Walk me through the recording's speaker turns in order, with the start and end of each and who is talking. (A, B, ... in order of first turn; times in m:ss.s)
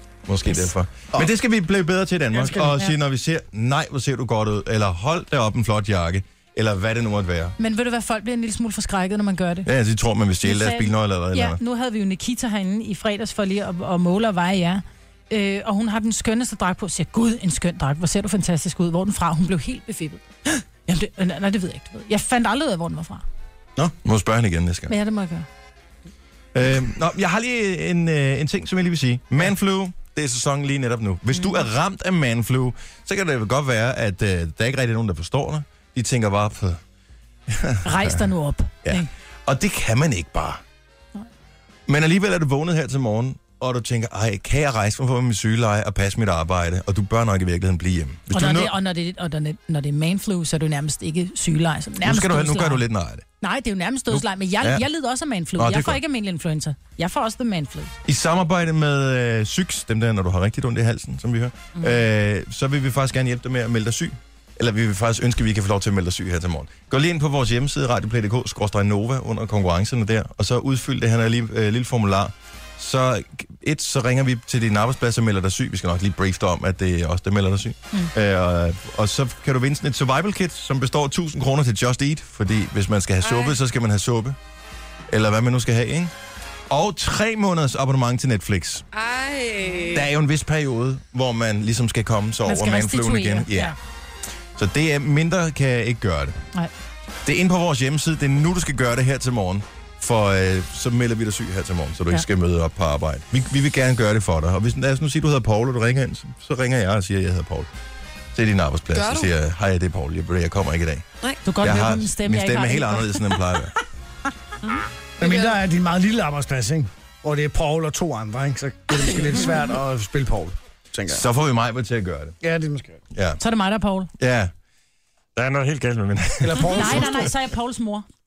0:00.3-0:07.5 A
0:02.3-0:03.0 B
0:07.6-0:09.7 B
0:09.6-0:11.6 A
0:10.4-0:20.2 B
0:20.8-0:23.2 B
0:24.0-0:24.9 A
0:24.9-0:25.4 B
0:26.5-0:36.8 A
0:31.3-0:31.6 B
0:37.5-0:38.2 A
0:37.8-0:39.1 B
0:38.8-0:40.6 A
0:41.9-0:48.7 A
0:48.3-0:52.8 B
0:52.0-0:53.2 A
0:53.4-0:57.9 B
0:54.1-0:54.8 A
0:55.6-0:56.0 A
0:58.0-1:24.4 A
1:23.2-1:23.6 C
1:25.1-1:26.1 A
1:26.7-1:28.8 A
1:28.9-1:30.1 C
1:29.9-1:33.8 A
1:32.4-1:33.8 B
1:34.6-1:36.4 A
1:37.2-1:47.7 A
1:48.3-1:51.0 A
1:48.9-1:49.3 C
1:51.4-1:53.4 B
1:51.6-1:53.7 A
1:54.7-1:55.6 C
1:55.2-2:01.2 D
2:01.1-2:02.3 A
2:02.4-2:03.0 D
2:03.1-2:03.4 A
2:03.4-2:04.1 B
2:04.2-2:04.5 A
2:05.3-2:07.3 A
2:06.4-2:07.3 D
2:06.7-2:08.0 B